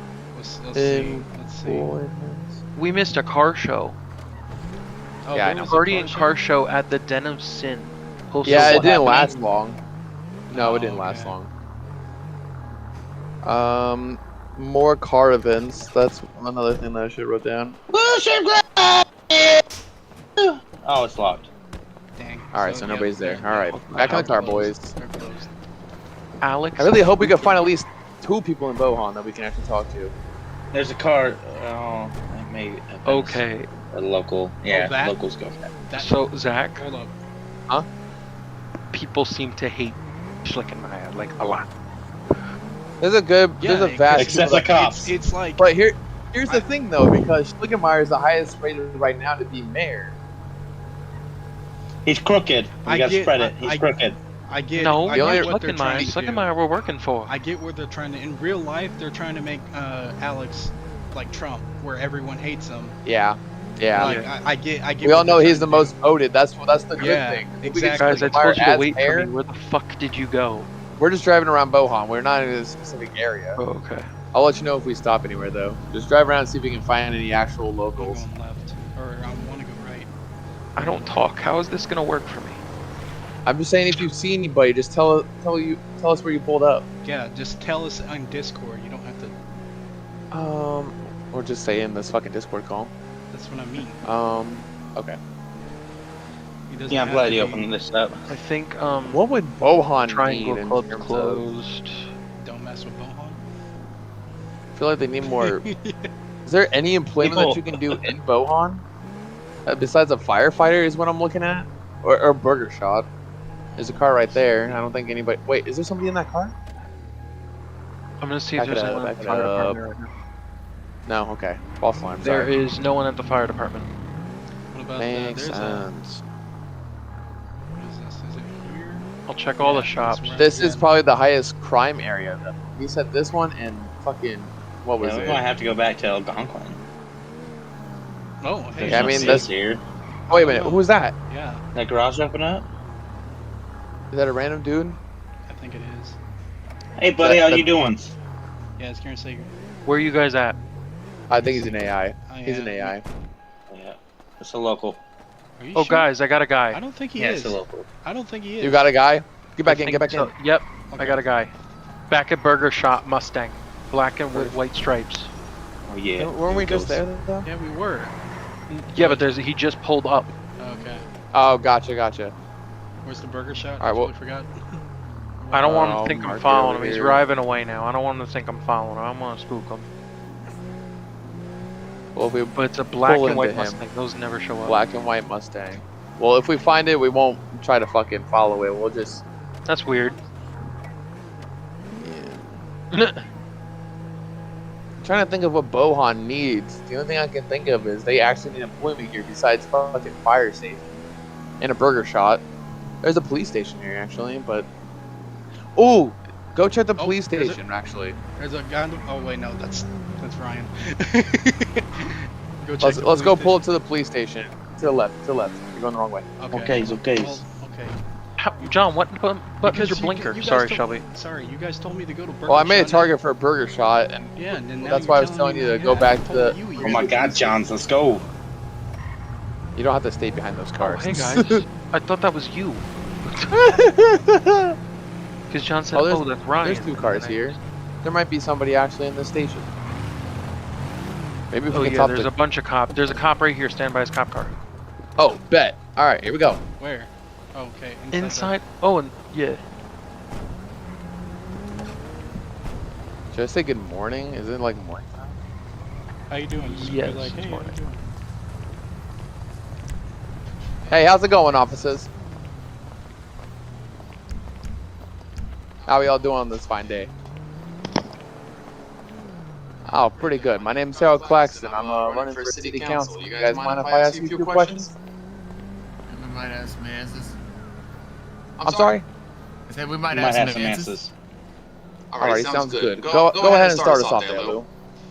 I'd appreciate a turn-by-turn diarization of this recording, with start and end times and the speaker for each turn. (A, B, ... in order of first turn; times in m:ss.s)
0:00.3-0:02.0 A
0:00.8-0:02.6 B
0:02.8-0:04.0 C
0:05.2-0:06.4 A
0:05.3-0:05.7 B
0:05.6-0:09.3 C
0:08.4-0:09.8 B
0:08.4-0:09.3 D
0:08.9-0:09.2 A
0:10.5-0:11.4 A
0:10.5-0:11.5 B
0:13.4-0:17.8 B
0:17.9-0:19.6 D
0:20.4-0:21.5 D
0:22.2-0:25.5 A
0:22.5-0:24.9 B
0:23.7-0:24.6 C
0:26.4-0:27.4 C
0:26.8-0:30.1 B
0:30.7-0:35.6 D
0:33.0-0:33.7 C
0:34.7-0:35.2 A
0:35.9-0:36.1 A
0:36.0-0:36.9 C
0:36.8-0:37.1 A
0:38.9-0:41.7 C
0:43.0-0:44.7 B
0:43.6-0:45.7 A
0:44.1-0:45.1 D
0:45.6-0:50.1 B
0:52.0-0:54.2 D
0:52.8-0:53.9 A
0:54.4-0:56.5 A
0:54.8-0:57.3 C
0:55.1-0:55.5 B
0:57.3-1:03.0 A
1:03.0-1:04.2 B
1:03.9-1:06.0 A
1:04.0-1:04.3 C
1:05.0-1:09.3 B
1:07.0-1:08.6 A
1:08.0-1:10.7 C
1:11.0-1:13.6 B
1:13.6-1:14.1 C
1:14.3-1:18.2 B
1:18.0-1:20.1 A
1:20.8-1:22.6 C
1:23.4-1:26.8 B
1:27.0-1:29.3 A
1:30.3-1:32.9 B
1:33.3-1:34.0 A
1:34.0-1:35.2 B
1:36.7-1:37.7 A
1:36.9-1:38.2 D
1:38.3-1:39.2 C
1:39.1-1:41.4 B
1:40.1-1:42.1 C
1:42.4-1:43.4 A
1:44.8-1:45.7 B
1:45.3-1:46.1 A
1:46.5-1:48.8 B
1:47.2-1:48.1 D
1:49.7-1:53.1 B
1:53.8-1:54.4 A
1:53.8-1:56.5 B
1:58.2-2:00.1 C
1:58.6-1:59.8 B
2:01.1-2:02.6 B
2:02.2-2:03.9 C
2:04.7-2:05.9 A
2:05.0-2:06.2 B
2:07.8-2:09.1 A
2:09.3-2:10.4 C
2:09.6-2:10.9 A
2:10.4-2:15.4 B
2:15.0-2:16.8 D
2:18.4-2:19.5 A
2:18.8-2:19.8 D
2:18.9-2:19.5 B
2:20.3-2:21.6 A
2:20.3-2:21.1 B
2:21.8-2:22.7 D
2:24.1-2:25.0 B
2:25.5-2:26.2 A
2:27.0-2:28.1 D
2:27.2-2:27.7 B
2:28.8-2:29.5 A
2:29.9-2:30.6 C
2:31.3-2:33.0 B
2:31.3-2:33.0 A
2:33.7-2:35.0 D
2:35.6-2:36.1 A
2:35.8-2:36.8 C
2:36.7-2:38.9 A
2:37.2-2:37.9 D
2:38.6-2:40.3 B
2:39.6-2:41.5 C
2:40.9-2:41.2 A
2:42.1-2:45.3 C
2:44.3-2:44.6 B
2:45.9-2:47.0 D
2:46.2-2:47.5 B
2:47.4-2:48.1 A
2:48.7-2:49.3 A
2:48.9-2:50.3 C
2:50.6-2:51.0 A
2:51.3-2:52.3 B
2:53.0-2:54.8 A
2:53.8-2:54.1 B
2:55.4-2:55.7 A
2:55.5-2:59.9 C
2:55.6-2:57.2 B
3:02.2-3:03.8 B
3:02.5-3:04.8 C
3:04.6-3:09.2 B
3:09.7-3:10.2 C
3:11.9-3:12.6 B
3:12.9-3:13.2 C
3:15.0-3:21.0 B
3:21.6-3:22.4 B
3:23.0-3:24.7 B
3:25.8-3:28.2 B
3:27.0-3:27.6 A
3:28.4-3:33.6 A
3:32.8-3:36.3 B
3:36.4-3:38.0 A
3:36.5-3:37.4 D
3:38.4-3:41.0 C
3:39.6-3:43.2 A
3:42.5-3:47.3 B
3:44.4-3:47.6 A
3:46.8-3:48.3 D
3:49.8-3:51.6 B
3:50.8-3:53.8 C
3:53.5-3:54.8 B
3:55.5-3:57.6 C
3:55.9-3:59.7 B
4:01.5-4:02.3 B
4:01.7-4:04.5 C
4:05.2-4:06.6 B
4:06.8-4:08.6 A
4:08.1-4:09.6 C
4:13.3-4:15.4 B
4:16.3-4:18.0 A
4:16.6-4:17.8 C
4:20.9-4:22.1 B
4:25.9-4:27.1 B
4:29.9-4:34.9 B
4:30.2-4:34.9 E
4:36.1-4:37.4 E
4:38.6-4:39.0 E
4:38.6-4:39.0 B
4:39.7-4:41.0 E
4:40.1-4:41.1 D
4:42.1-4:44.7 E
4:42.2-4:44.6 B